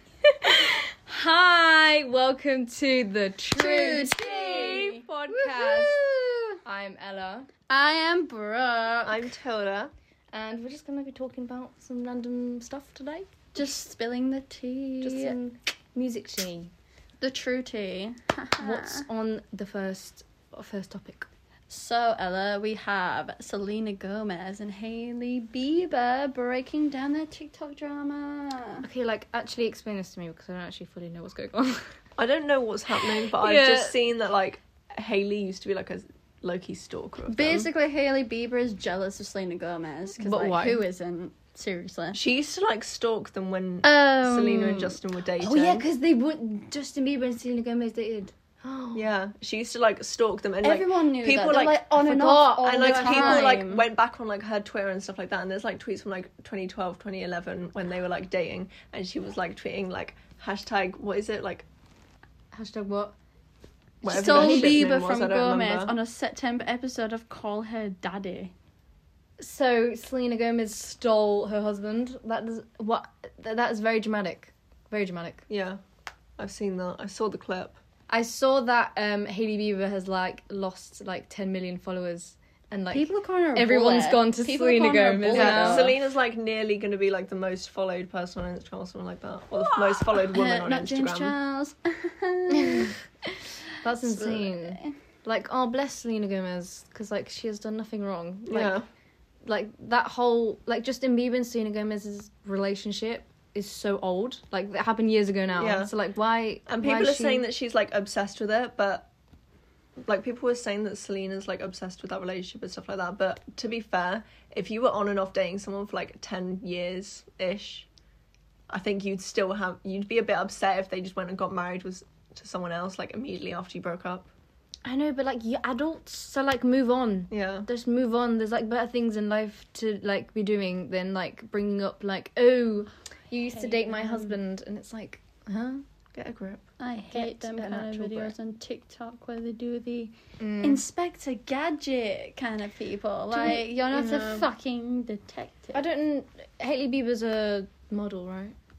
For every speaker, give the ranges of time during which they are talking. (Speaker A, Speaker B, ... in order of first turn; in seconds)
Speaker A: 0.2-6.0, 6.6-7.5, 10.3-13.4, 15.0-16.7, 18.6-21.3, 28.8-31.9, 33.0-34.0, 40.2-40.8, 43.8-44.9, 45.4-49.0, 52.0-53.5, 62.5-63.1, 64.0-64.9, 69.4-75.4, 78.1-85.9, 92.5-92.9, 93.8-98.8, 99.5-107.4, 124.8-135.8, 137.1-138.3, 140.4-140.8, 143.3-144.5, 145.7-148.6
Speaker B: 3.5-6.6, 7.7-9.3, 13.6-15.4, 17.2-19.1, 21.7-28.9, 37.3-42.2, 43.8-44.6, 50.6-53.9, 64.1-68.5, 82.9-85.9, 89.6-93.0, 94.0-94.9, 133.3-134.4, 136.8-145.8
Speaker C: 9.1-9.9, 32.2-37.7, 42.1-45.8, 48.9-51.9, 52.6-61.7, 64.0-65.9, 75.5-75.8, 76.4-77.8, 85.3-91.3, 98.5-98.9, 105.6-105.9, 106.7-109.1, 110.0-117.9, 118.7-124.3, 127.3-127.7, 136.2-136.7